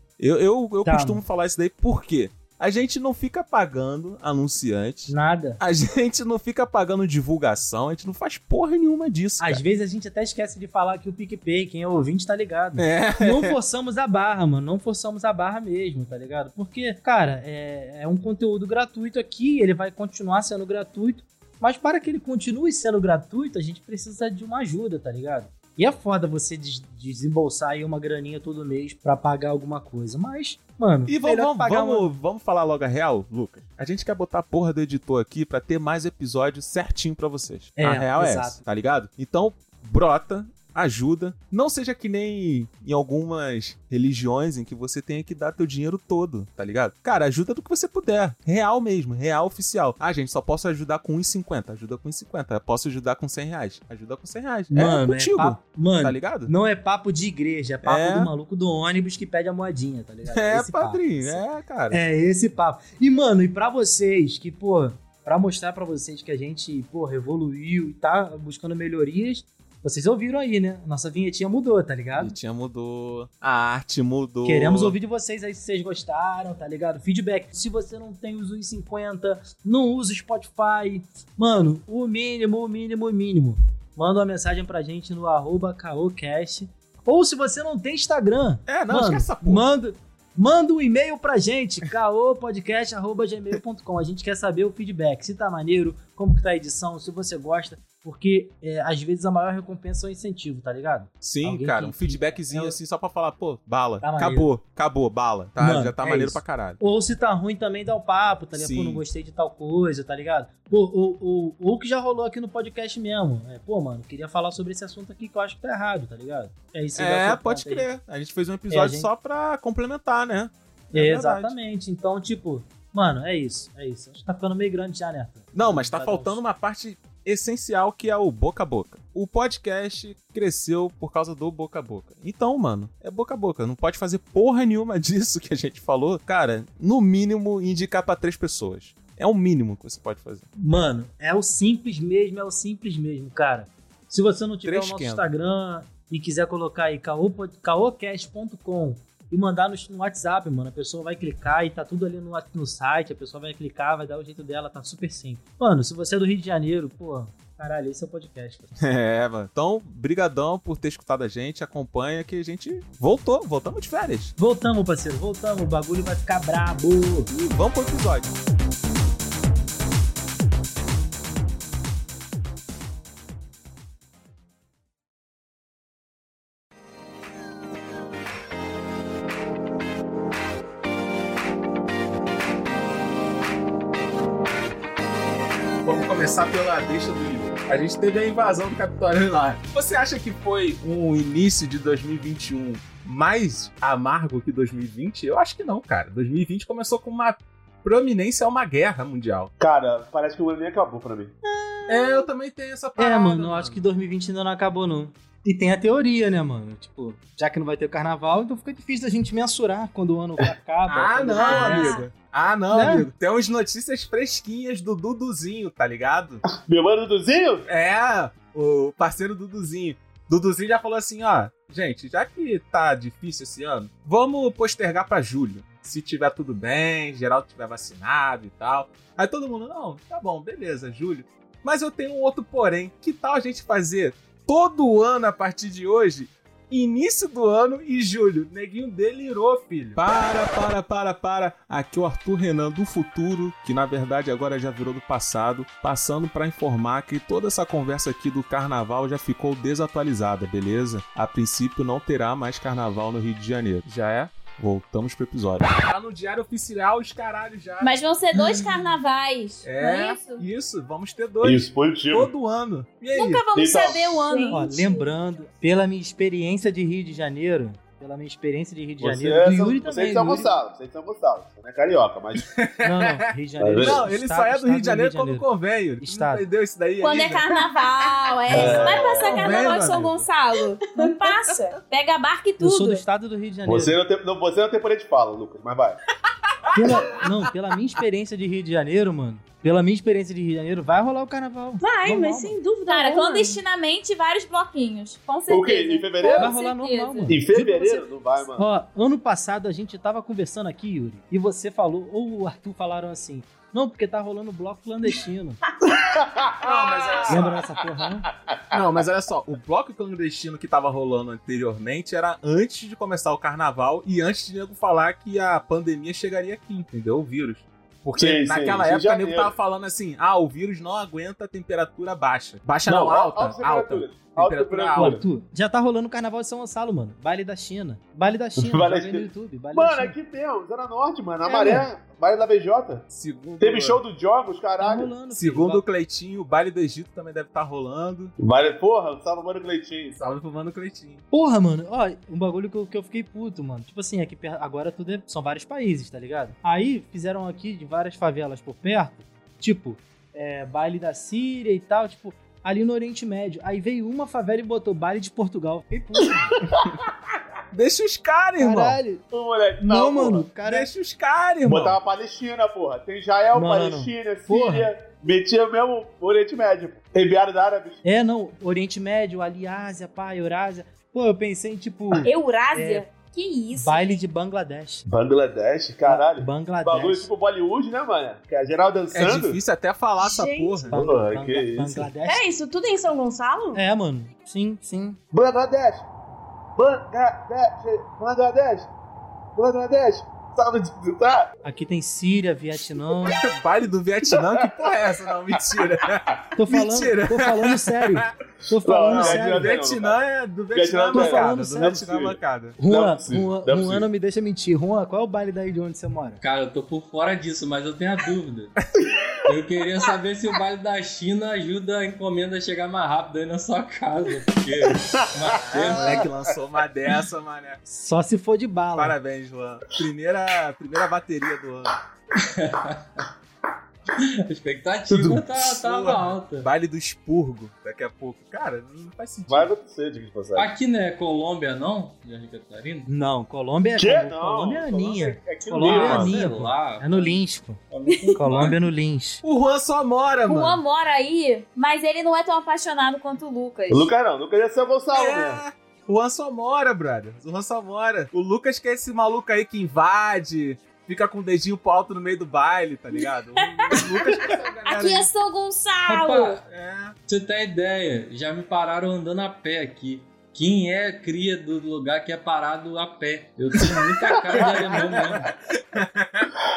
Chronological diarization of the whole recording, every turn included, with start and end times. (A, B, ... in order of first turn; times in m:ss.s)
0:00.2-0:09.6 A
0:00.8-0:01.2 B
0:05.1-0:05.6 B
0:09.4-0:32.1 B
0:12.8-0:13.5 A
0:31.0-0:56.5 A
0:37.8-0:38.6 B
0:54.7-1:12.3 B
0:57.8-0:58.3 A
1:00.3-1:02.0 A
1:12.2-1:14.9 A
1:14.4-1:42.8 B
1:28.7-1:29.7 A
1:41.2-1:46.8 A
1:44.0-1:44.5 B
1:45.6-1:57.9 B
1:48.5-1:49.0 A
1:57.0-2:01.5 A
1:58.7-1:59.1 B
2:00.9-2:06.4 B
2:05.5-2:20.5 A
2:20.6-2:38.7 B
2:24.6-2:25.3 A
2:38.8-2:44.3 A
2:44.4-2:47.3 B
2:47.3-2:48.3 A
3:05.8-3:19.5 A
3:19.6-3:21.3 C
3:21.4-3:22.2 B
3:21.9-3:23.8 A
3:23.0-3:32.0 B
3:30.9-3:36.4 A
3:31.4-3:32.1 D
3:32.7-3:33.1 B
3:36.4-3:37.6 C
3:37.6-4:18.8 A
4:17.8-4:20.4 D
4:19.6-4:23.4 A
4:21.4-4:22.3 C
4:23.1-4:24.8 D
4:23.5-4:24.2 C
4:24.2-4:25.0 E
4:24.5-4:30.5 B
4:29.0-4:32.5 C
4:32.4-4:33.2 A
4:32.8-4:36.4 B
4:33.6-4:34.0 C
4:33.8-4:37.4 A
4:37.0-4:43.0 D
4:37.5-4:38.5 E
4:38.5-4:39.5 C
4:38.5-4:40.3 A
4:40.9-4:41.8 E
4:42.6-4:44.0 B
4:43.6-4:46.0 C
4:46.7-4:47.2 A
4:46.7-4:52.6 B
4:51.8-4:53.6 E
4:52.9-4:57.3 D
4:55.5-4:56.5 C
4:56.3-5:05.6 B
4:57.2-4:58.7 C
5:05.9-5:07.6 C
5:06.6-5:07.6 A
5:07.3-5:08.3 B
5:08.7-5:25.2 A
5:18.2-5:19.5 C
5:22.8-5:25.2 C
5:24.9-5:30.1 B
5:28.6-5:33.0 C
5:31.4-5:31.8 B
5:33.1-5:34.0 A
5:33.6-5:35.1 C
5:34.8-5:35.8 B
5:35.3-5:38.3 A
5:38.4-5:40.2 C
5:40.1-5:41.2 A
5:41.3-5:56.5 B
5:56.4-5:56.8 C
5:57.7-5:59.0 A
5:58.6-5:59.2 B
5:59.3-6:00.5 C
5:59.8-6:00.9 B
6:00.6-6:02.0 A
6:01.6-6:08.0 C
6:03.5-6:04.9 B
6:08.0-6:13.0 B
6:12.2-6:14.2 D
6:13.7-6:15.0 B
6:15.0-6:19.6 C
6:16.0-6:17.3 B
6:19.1-6:21.0 A
6:20.2-6:20.9 E
6:20.9-6:22.1 C
6:20.9-6:22.4 B
6:22.2-6:23.8 E
6:23.7-6:25.2 B
6:25.3-6:26.0 C
6:26.8-6:28.9 C
6:29.6-6:31.5 C
6:31.6-6:33.4 B
6:33.2-6:38.3 A
6:36.6-6:39.7 B
6:38.8-6:40.2 C
6:39.1-6:42.8 A
6:40.7-6:44.0 C
6:41.1-6:42.0 B
6:42.8-6:46.4 B
6:46.4-6:48.7 F
6:49.4-6:56.2 F
6:55.5-6:56.3 C
6:55.7-6:57.8 A
6:57.8-6:59.2 B
6:59.0-7:02.0 A
7:02.4-7:03.2 F
7:04.2-7:06.7 F
7:05.6-7:09.7 A
7:09.5-7:10.7 C
7:10.6-7:13.1 F
7:13.1-7:17.8 B
7:14.0-7:16.3 C
7:15.8-7:17.4 F
7:17.9-7:18.8 F
7:18.1-7:18.4 D
7:18.4-7:19.4 B
7:19.4-7:20.8 A
7:20.5-7:24.1 D
7:23.9-7:25.6 C
7:25.1-7:35.3 A
7:33.6-7:36.6 D
7:36.1-7:36.6 F
7:36.6-7:37.2 A
7:37.3-7:45.5 F
7:44.5-7:46.5 A